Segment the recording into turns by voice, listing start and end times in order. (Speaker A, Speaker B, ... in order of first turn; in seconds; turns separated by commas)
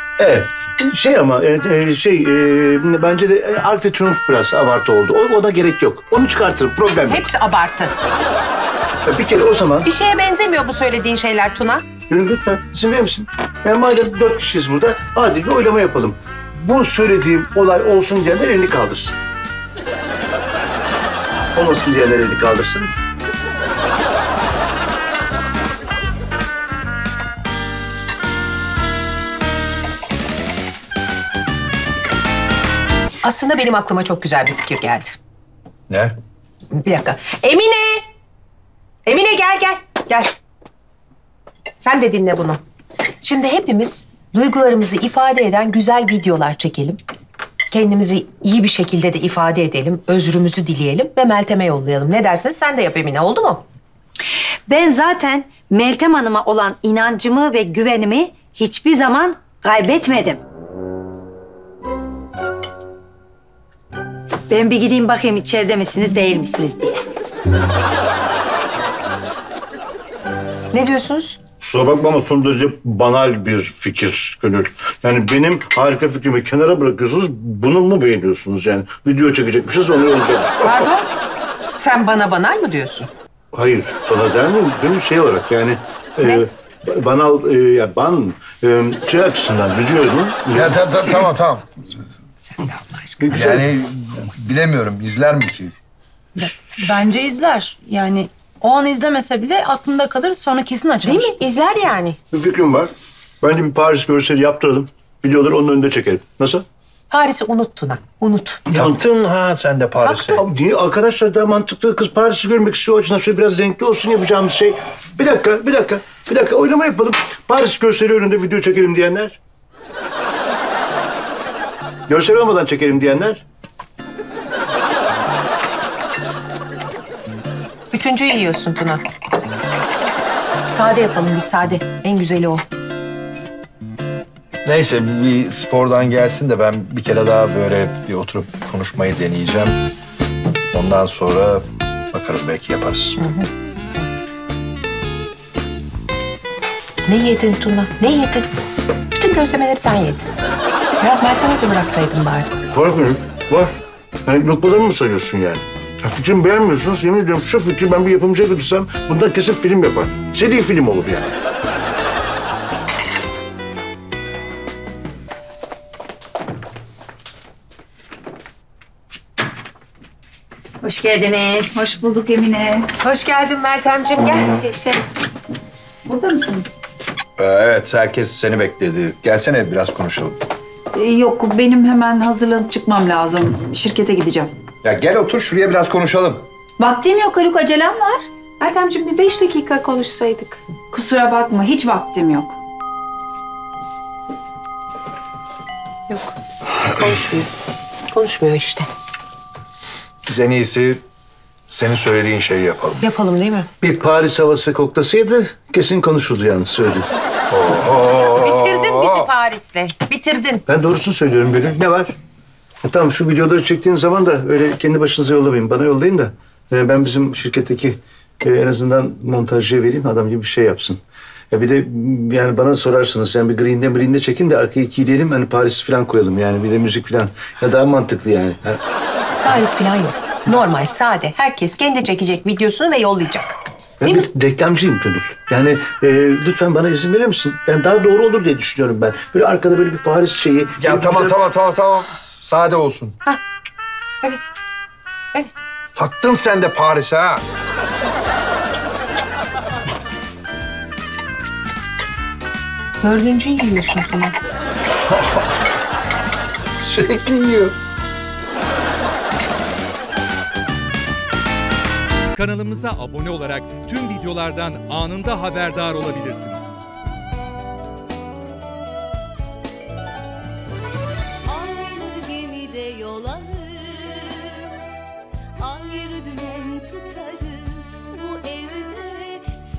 Speaker A: 0.2-7.2, Speaker B: 7.1-7.9, Speaker A: 9.1-9.9, Speaker B: 9.8-11.9, Speaker A: 12.1-19.2, Speaker A: 21.5-22.9, Speaker B: 33.2-35.2, Speaker C: 35.9-36.1, Speaker B: 36.7-38.0, Speaker B: 39.0-40.3, Speaker B: 41.8-42.6, Speaker B: 43.2-47.0, Speaker B: 47.7-53.6, Speaker D: 54.7-60.4, Speaker D: 64.5-67.0, Speaker B: 70.7-71.4, Speaker A: 71.6-80.7, Speaker B: 80.6-81.1, Speaker B: 81.8-83.1, Speaker A: 83.5-91.2, Speaker B: 86.2-86.5, Speaker C: 90.5-91.7, Speaker B: 92.6-93.4, Speaker A: 93.2-93.7, Speaker C: 93.3-95.7, Speaker E: 96.3-101.3, Speaker B: 101.0-102.2, Speaker A: 102.3-106.6, Speaker B: 107.1-108.6, Speaker C: 108.7-110.4, Speaker B: 110.0-110.4, Speaker A: 110.3-119.4, Speaker A: 122.1-123.4, Speaker B: 127.9-129.0, Speaker B: 130.7-132.6, Speaker C: 134.6-139.8, Speaker C: 140.7-143.2, Speaker B: 143.2-144.1, Speaker B: 147.1-148.5, Speaker B: 149.1-150.3, Speaker B: 151.0-152.5, Speaker A: 152.7-153.7, Speaker A: 154.2-161.3, Speaker D: 170.8-171.8, Speaker F: 171.7-172.9, Speaker B: 173.0-175.0, Speaker F: 176.0-176.7, Speaker C: 177.4-180.4, Speaker F: 180.9-184.5, Speaker C: 184.8-186.5, Speaker F: 186.8-188.2, Speaker B: 188.6-190.6, Speaker F: 190.9-192.6, Speaker B: 196.1-197.5, Speaker B: 198.1-198.9, Speaker C: 200.2-201.0, Speaker C: 201.7-203.0, Speaker B: 203.0-203.7, Speaker A: 203.8-207.1, Speaker C: 207.5-209.3, Speaker B: 208.4-210.6, Speaker A: 210.7-212.2, Speaker A: 212.8-221.0, Speaker A: 221.5-228.8, Speaker B: 229.4-234.3, Speaker A: 234.0-241.3, Speaker C: 240.8-243.2, Speaker C: 245.9-247.4, Speaker B: 253.0-254.3, Speaker C: 256.8-257.7, Speaker G: 262.4-266.7, Speaker D: 273.6-274.2, Speaker D: 276.2-277.0, Speaker D: 277.6-279.5